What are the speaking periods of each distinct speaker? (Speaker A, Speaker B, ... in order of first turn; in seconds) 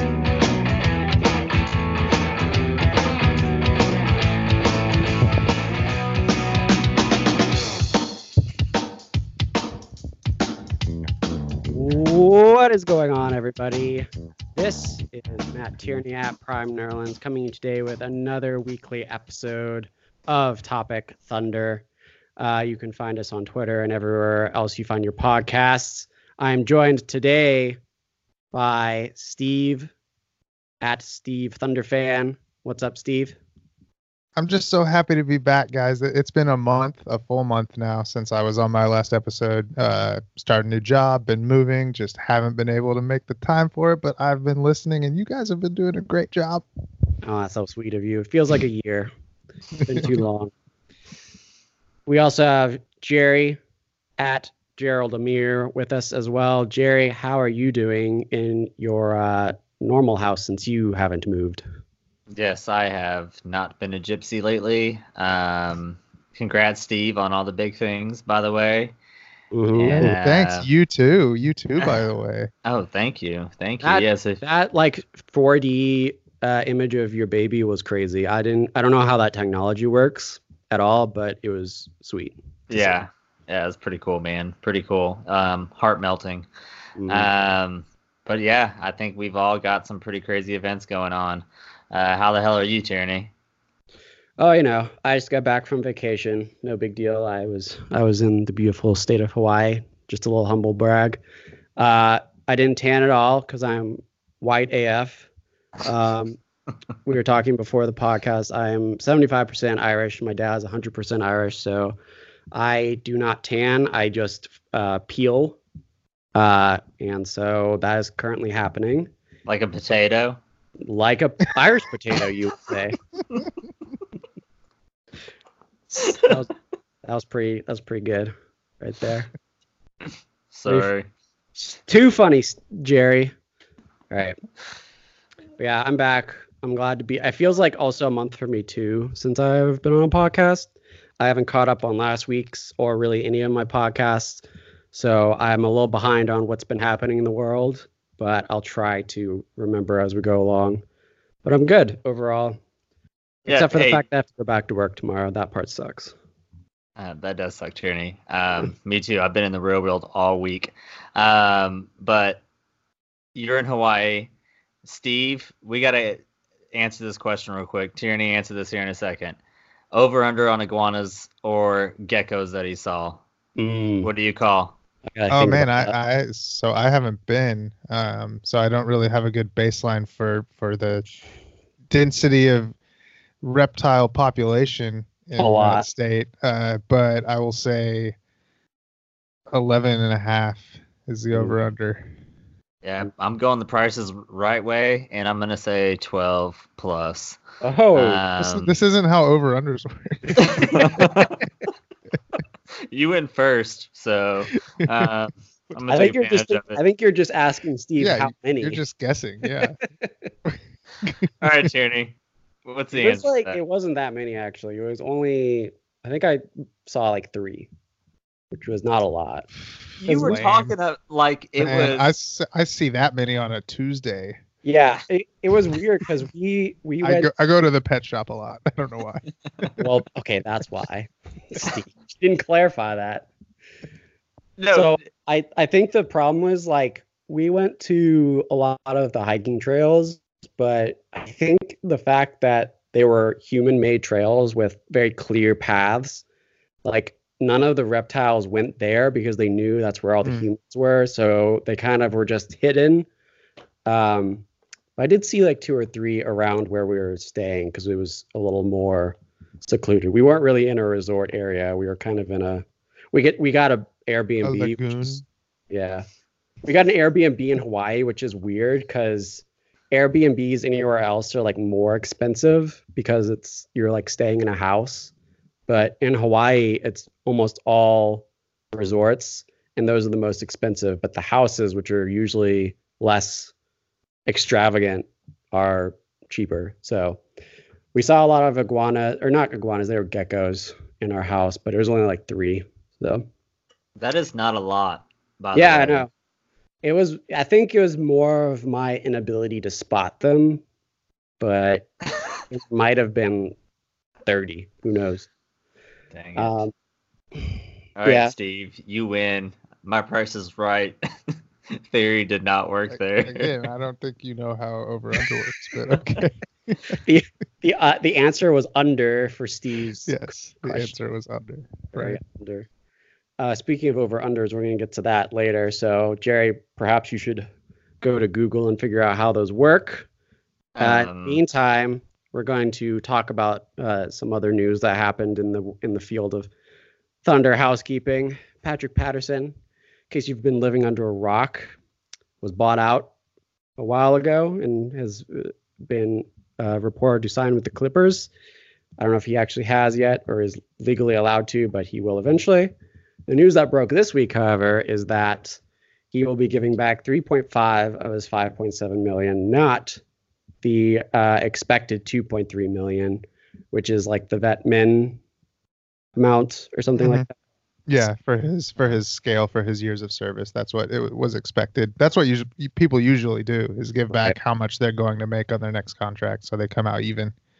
Speaker A: 11.7-21.9, 22.4-27.8, 28.5-29.9, 30.8-33.4, 47.2-49.1, 49.9-50.5, 52.1-53.6, 54.2-61.6, 69.5-70.2, 73.8-83.0, 87.0-87.3, 94.4-101.2, 101.8-105.3, 105.8-106.4, 107.0-112.0, 112.5-115.6, 116.3-119.1, 120.8-123.0, 125.9-126.5, 127.0-129.3, 130.7-130.9, 131.9-133.3, 134.1-134.4, 135.6-150.8, 151.4-152.6, 153.5-156.1, 173.6-174.1, 175.2-175.9, 185.4-185.9, 191.3-191.6, 197.6-198.2, 205.9-208.8, 212.9-217.7, 218.5-219.5, 220.1-220.5, 224.6-227.3, 229.8-233.3, 234.7-246.2, 246.8-253.1, 253.9-254.5, 255.0-266.1, 266.6-275.1, 275.7-283.5, 284.3-287.2, 287.9-293.3, 295.5-296.1, 296.8-300.6, 301.4-301.9, 302.5-303.6, 304.2-305.3, 306.4-306.7, 308.1-308.3, 317.0-320.9, 321.9-322.7, 323.4-327.5, 328.0-330.1, 330.8-336.5, 337.2-339.5, 340.1-341.8, 342.4-343.1, 343.8-348.3, 349.0-352.7, 353.3-355.6, 356.1-360.0, 360.6-365.2, 366.2-367.3, 374.1-374.4
Speaker B: 34.4-46.6, 49.9-50.2, 69.9-72.5, 175.3-181.1, 181.9-182.7, 183.4-188.2, 189.5-192.1, 198.4-201.1, 204.8-205.1, 208.0-209.8, 210.5-211.7, 220.2-220.7, 221.6-224.4, 227.0-229.7, 264.4-265.2, 312.9-316.9, 320.1-322.2, 367.0-367.2, 367.9-377.3
Speaker C: 62.3-69.0, 69.7-70.7, 72.7-74.4, 82.7-86.5, 87.1-93.3, 119.5-120.4, 130.5-131.1, 153.5-154.0, 157.0-162.4, 163.3-164.3, 164.8-169.4, 169.9-173.2, 174.0-174.8, 192.8-197.4, 197.9-198.7, 200.4-201.4, 202.9-206.8, 211.4-212.2, 212.7-213.6, 220.0-222.1, 234.6-235.0, 294.0-296.1, 306.1-306.6, 308.0-311.0, 311.8-313.5, 330.8-331.4